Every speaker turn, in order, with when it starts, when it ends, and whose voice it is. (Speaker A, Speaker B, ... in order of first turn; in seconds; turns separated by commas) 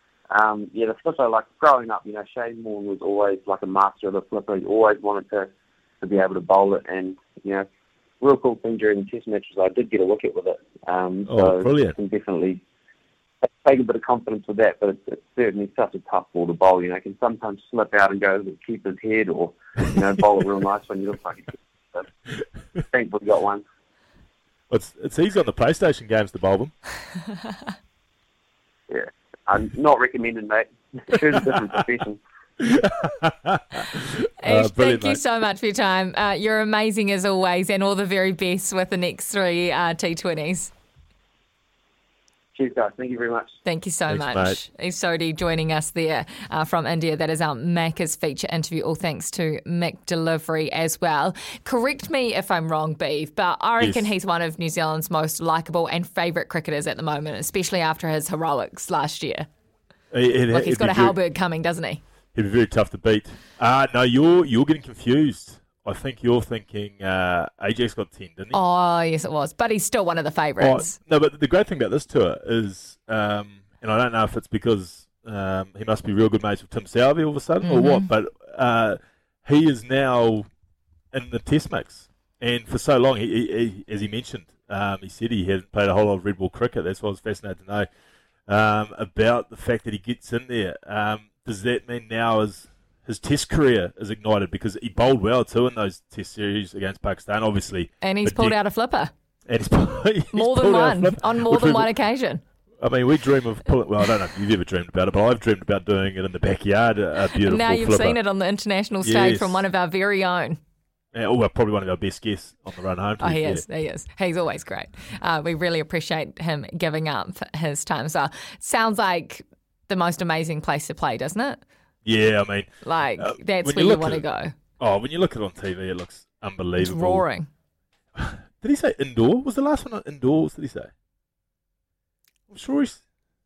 Speaker A: 0.3-5.5, Speaker A: 6.0-7.6, Speaker A: 8.2-12.6, Speaker B: 11.3-11.9, Speaker A: 13.4-22.1, Speaker A: 22.9-23.6, Speaker B: 24.7-26.7, Speaker A: 28.9-32.2, Speaker B: 32.6-35.2, Speaker C: 34.4-40.7, Speaker A: 42.5-43.6, Speaker C: 43.6-59.5, Speaker B: 44.1-44.6, Speaker B: 53.8-54.1, Speaker B: 60.1-61.2, Speaker C: 60.5-62.0, Speaker B: 62.3-68.6, Speaker C: 68.5-70.9, Speaker B: 70.6-80.5, Speaker C: 77.6-78.1, Speaker B: 81.1-87.9, Speaker B: 88.5-98.6, Speaker C: 98.0-99.1, Speaker B: 99.5-101.9, Speaker C: 100.3-102.4, Speaker B: 102.8-108.2, Speaker C: 107.3-110.6, Speaker B: 109.0-109.6, Speaker B: 111.1-113.7, Speaker C: 113.2-121.6, Speaker B: 122.0-124.2, Speaker C: 122.8-124.5, Speaker B: 124.8-127.2, Speaker C: 126.8-127.5, Speaker B: 128.2-130.9, Speaker B: 132.5-133.0